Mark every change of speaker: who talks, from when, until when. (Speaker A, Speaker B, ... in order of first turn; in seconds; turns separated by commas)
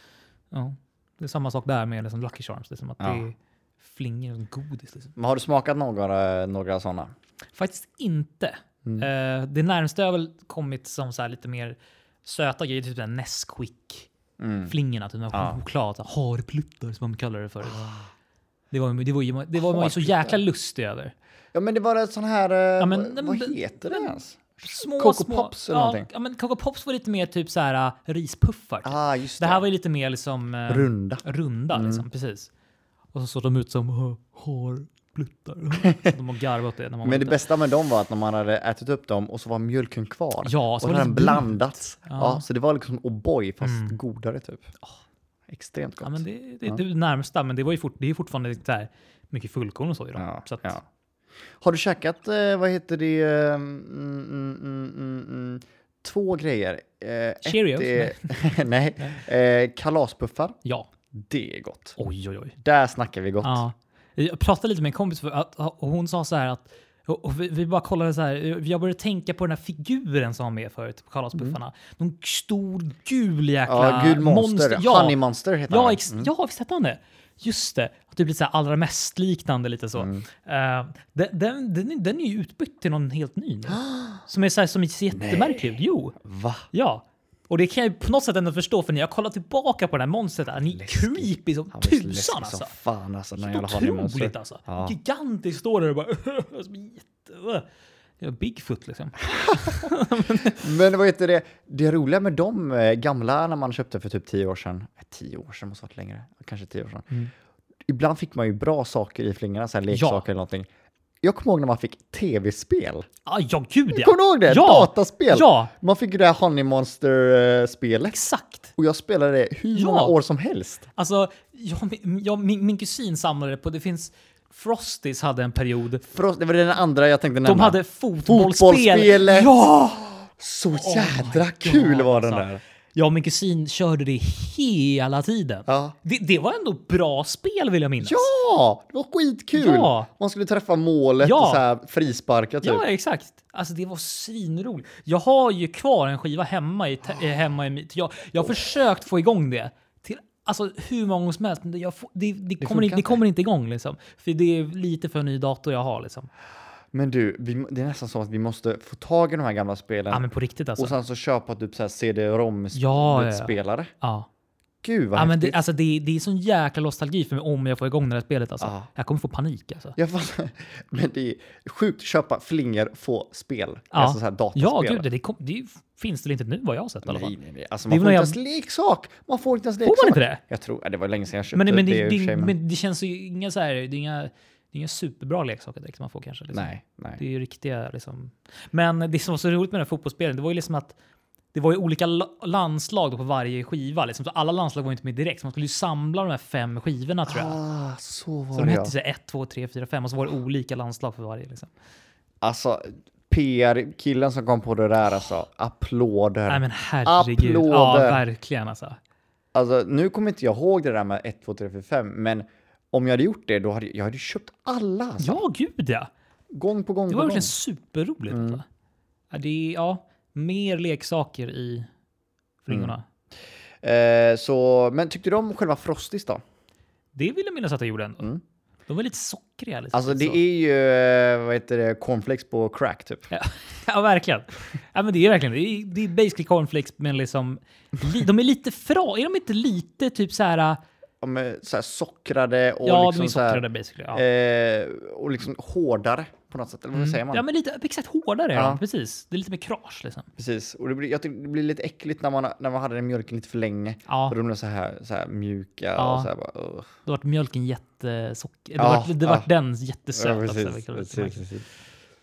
Speaker A: 0.5-5.1, Speaker B: 3.0-3.3, Speaker B: 5.2-7.1, Speaker A: 7.5-14.1, Speaker B: 14.4-14.7, Speaker A: 14.7-17.9, Speaker B: 15.3-15.6, Speaker B: 17.6-18.1, Speaker A: 18.7-21.1, Speaker B: 19.6-20.4, Speaker B: 21.5-26.1, Speaker A: 22.8-24.1, Speaker A: 24.7-32.5, Speaker B: 28.8-29.6, Speaker B: 30.7-32.0, Speaker A: 33.1-37.4, Speaker B: 35.8-36.2, Speaker B: 37.0-44.7, Speaker A: 40.5-42.4, Speaker A: 43.6-44.0, Speaker B: 45.5-46.8, Speaker A: 46.0-50.8, Speaker B: 50.2-50.9, Speaker B: 51.6-60.6, Speaker A: 57.4-58.3, Speaker B: 61.1-62.0, Speaker A: 62.0-62.5, Speaker B: 62.6-63.6, Speaker A: 63.4-75.2, Speaker B: 73.7-76.3, Speaker A: 75.7-86.2, Speaker B: 80.0-80.3, Speaker B: 83.7-84.2, Speaker B: 85.1-86.7, Speaker A: 86.7-92.7, Speaker B: 90.7-95.0, Speaker A: 93.4-97.7, Speaker A: 98.2-100.6, Speaker B: 99.2-107.1, Speaker B: 107.9-110.7, Speaker A: 109.9-110.2, Speaker B: 111.2-113.1, Speaker A: 113.3-115.7, Speaker B: 113.9-118.2, Speaker A: 118.1-118.7, Speaker B: 118.8-120.9, Speaker A: 119.7-120.2, Speaker A: 121.0-126.0, Speaker B: 126.1-129.6, Speaker A: 127.5-130.2, Speaker B: 130.2-132.6, Speaker A: 130.7-138.3, Speaker B: 135.7-135.9, Speaker B: 138.0-142.8, Speaker A: 139.6-140.1, Speaker A: 141.2-141.6, Speaker A: 142.6-156.3, Speaker B: 152.6-153.2, Speaker B: 156.9-160.2, Speaker A: 160.1-160.9, Speaker B: 160.8-163.9, Speaker A: 162.8-164.3, Speaker B: 164.8-165.6, Speaker A: 165.2-170.0, Speaker B: 168.6-168.9, Speaker B: 170.0-175.1, Speaker A: 173.9-177.3, Speaker B: 177.1-182.5, Speaker A: 177.9-178.4, Speaker A: 179.8-180.4, Speaker A: 181.5-190.9, Speaker B: 186.5-187.2, Speaker A: 191.5-197.6, Speaker B: 197.3-198.9, Speaker A: 198.5-201.7, Speaker B: 202.4-208.2, Speaker A: 206.5-209.0, Speaker B: 209.5-215.4, Speaker A: 215.2-216.1, Speaker B: 216.5-217.5, Speaker A: 217.1-218.7, Speaker B: 218.3-218.6, Speaker A: 219.3-221.9, Speaker A: 222.7-223.1, Speaker B: 223.8-226.4, Speaker A: 227.2-228.3, Speaker A: 228.9-230.4, Speaker B: 229.9-233.3, Speaker A: 233.3-240.8, Speaker B: 241.2-247.4, Speaker A: 242.8-244.2, Speaker A: 246.9-250.3, Speaker B: 248.5-248.8, Speaker B: 250.4-256.9, Speaker A: 254.1-254.4, Speaker A: 256.0-256.3, Speaker A: 257.1-261.5, Speaker B: 258.8-259.5, Speaker B: 260.1-261.7